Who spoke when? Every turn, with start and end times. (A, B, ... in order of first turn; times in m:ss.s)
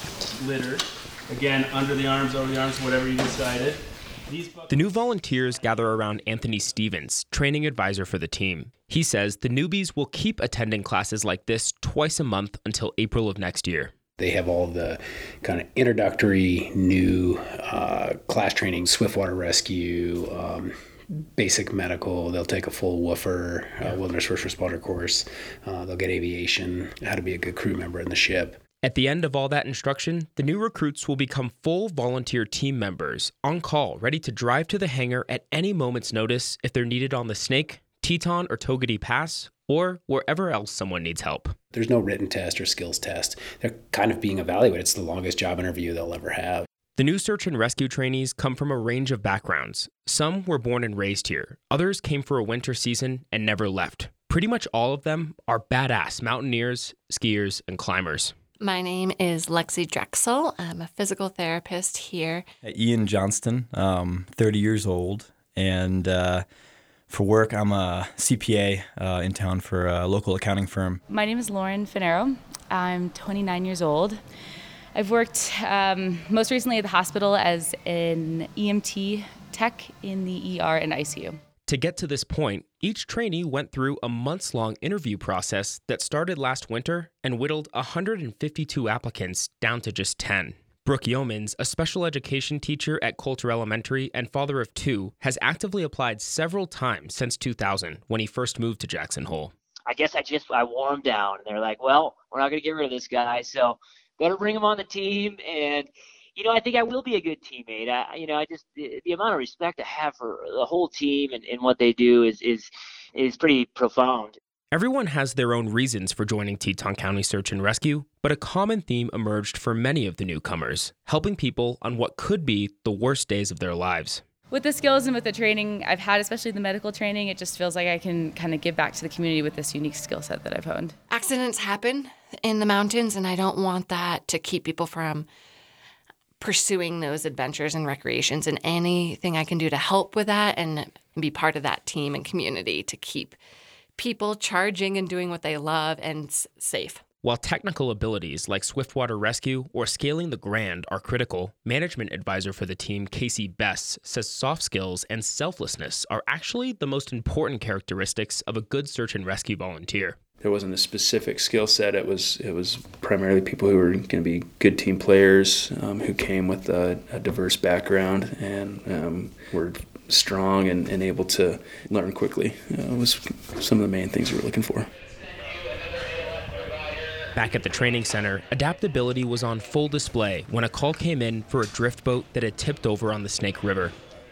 0:00.4-0:05.0 A
0:04.7-0:13.9 B
0:14.2-0:28.6 C
0:28.8-0:41.5 B
0:41.7-0:46.7 C
0:47.0-0:58.3 B
0:58.6-1:02.4 D
1:02.6-1:06.4 E
1:07.1-1:11.0 E
1:11.1-1:14.2 F
1:14.9-1:21.4 F
1:21.7-1:39.5 B
1:39.9-1:54.4 G
1:54.7-2:04.2 B
2:04.5-2:10.9 F
2:11.1-2:15.2 D
2:16.4-2:23.4 D
2:24.0-2:27.0 D
2:27.2-2:40.2 B
2:40.4-2:54.9 A
2:57.3-3:04.0 B